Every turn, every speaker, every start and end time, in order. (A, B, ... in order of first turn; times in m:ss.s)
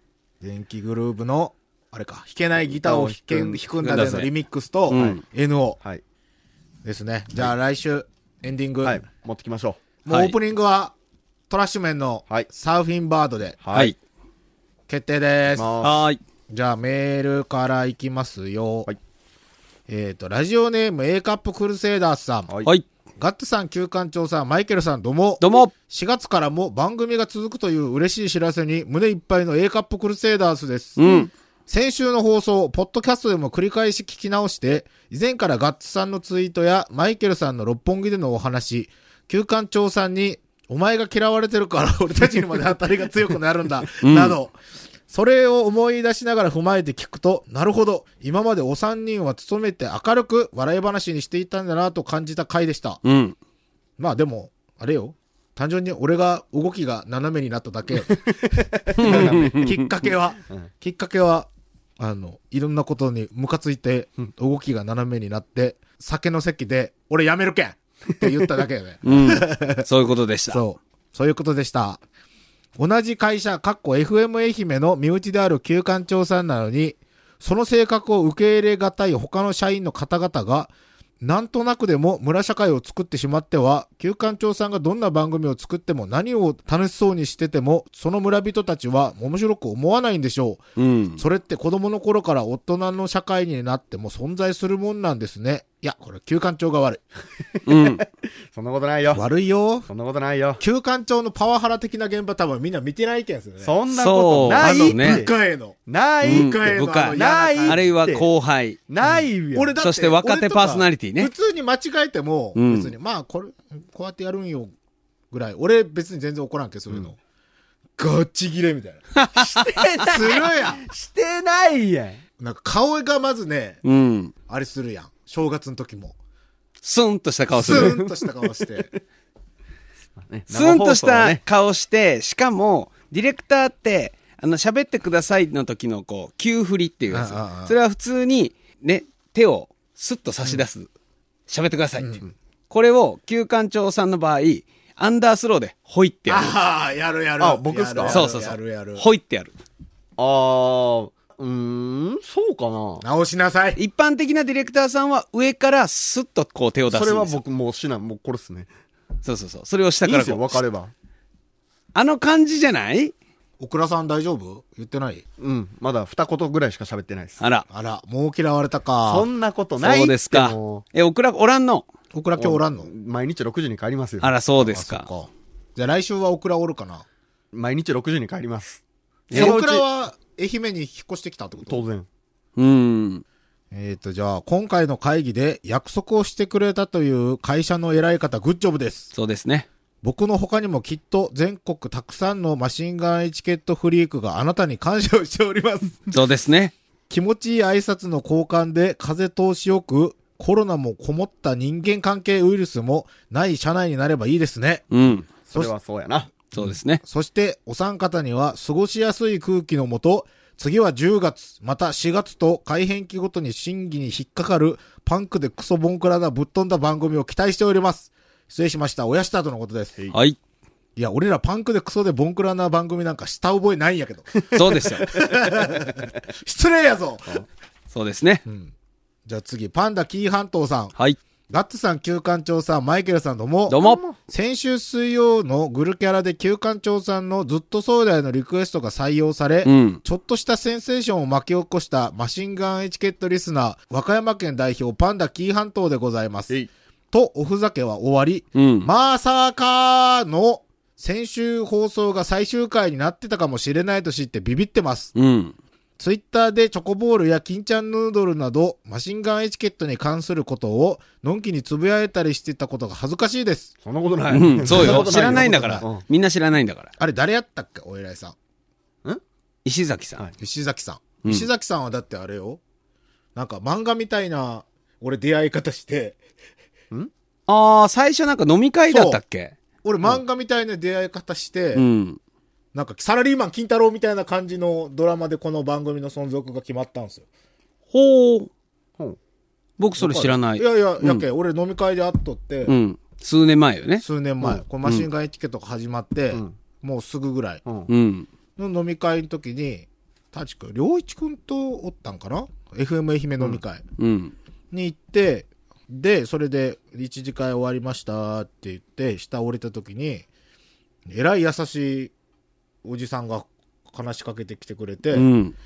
0:00.4-0:05.8 A
0:02.7-0:03.7 B
0:03.8-0:04.3 C
0:04.9-0:05.2 C
0:04.9-0:05.2 B
0:06.8-0:09.0 A
0:08.8-0:09.8 B
0:10.0-0:10.4 C
0:10.1-0:10.9 A
0:11.5-0:13.6 A
0:13.6-0:13.9 B
0:14.9-0:15.8 A
0:15.6-0:16.0 B
0:15.8-0:16.2 C
0:16.5-0:18.9 A
0:19.9-0:22.5 A
0:23.2-0:44.6 A
0:25.4-0:25.7 C
0:31.0-0:31.3 C
0:44.0-0:44.4 C
0:45.1-0:53.0 A
0:53.0-0:53.3 C
0:54.0-1:01.5 A
0:58.1-0:59.6 B
0:58.9-1:00.0 C
1:02.0-1:09.9 A
1:09.0-1:10.6 C
1:10.5-1:12.0 A
1:12.8-1:30.6 A
1:30.8-1:31.2 C
1:31.2-1:37.0 A
1:37.6-1:38.0 C
1:37.9-1:39.2 B
1:39.1-1:39.9 A
1:39.9-1:40.6 B
1:40.6-1:43.7 A
1:43.6-1:45.3 B
1:43.9-1:45.2 C
1:44.6-1:47.8 A
1:45.9-1:48.3 B
1:46.2-1:48.8 C
1:48.9-1:49.7 B
1:49.0-1:54.7 A
1:49.8-1:51.3 C
1:52.6-1:52.9 C
1:55.3-1:57.2 A
1:58.0-1:59.1 A
1:59.1-2:00.0 C
1:59.3-2:02.2 B
2:00.0-2:00.8 A
2:02.4-2:03.8 A
2:03.8-2:04.3 C
2:04.5-2:06.2 A
2:06.8-2:08.0 C
2:07.5-2:08.9 A
2:07.6-2:08.7 B
2:10.3-2:11.4 B
2:10.5-2:20.9 C
2:17.1-2:17.7 A
2:21.5-2:22.1 C
2:22.0-2:22.2 A
2:22.7-2:26.5 C
2:26.3-2:29.0 A
2:27.4-2:28.2 B
2:28.1-2:29.5 C
2:30.2-2:33.0 B
2:33.0-2:33.8 A
2:33.8-2:37.4 C
2:36.9-2:38.7 B
2:39.2-2:40.6 C
2:40.0-2:40.9 B
2:41.9-2:43.1 C
2:43.6-2:45.2 A
2:45.4-2:47.4 B
2:47.4-2:47.6 C
2:47.7-2:49.3 A
2:49.0-2:50.8 B
2:49.8-2:51.8 C
2:52.1-2:52.9 A
2:52.4-2:54.3 B
2:54.2-2:55.1 C
2:54.6-2:57.0 A
2:57.5-2:59.8 B
2:59.3-3:01.8 A
3:01.7-3:02.1 B
3:02.6-3:03.2 C
3:03.7-3:09.1 A
3:09.1-3:09.7 C
3:10.0-3:16.2 A
3:16.1-3:16.7 C
3:17.1-3:24.9 A
3:24.9-3:25.2 C
3:25.4-3:26.3 B
3:26.5-3:27.0 C
3:26.6-3:40.0 A
3:41.0-3:47.4 A
3:44.5-3:45.0 C
3:47.9-3:48.4 C
3:48.4-3:48.7 A
3:49.2-3:50.9 A
3:51.5-4:06.5 A
3:53.7-3:54.0 C
3:53.8-3:54.2 B
3:59.6-4:00.0 C
4:07.1-4:15.1 A
4:08.6-4:08.9 C
4:15.2-4:15.5 C
4:16.0-4:23.7 A
4:23.8-4:26.0 B
4:24.3-4:26.9 C
4:24.6-4:25.8 A
4:27.0-4:28.3 A
4:29.6-4:30.2 C
4:30.4-4:32.6 A
4:33.3-4:36.2 A
4:37.5-4:39.5 C
4:38.9-4:39.2 A
4:39.8-4:41.8 A
4:41.7-4:42.2 C
4:42.7-4:47.3 A
4:47.9-4:48.5 C
4:49.8-4:51.2 C
4:50.0-4:52.7 A
4:52.6-4:54.0 C
4:54.0-4:57.6 A
4:57.9-4:58.3 C
4:58.6-5:03.8 A
5:04.0-5:04.3 C
5:04.7-5:10.2 A
5:11.1-5:12.1 A
5:12.8-5:15.3 A
5:15.1-5:15.5 C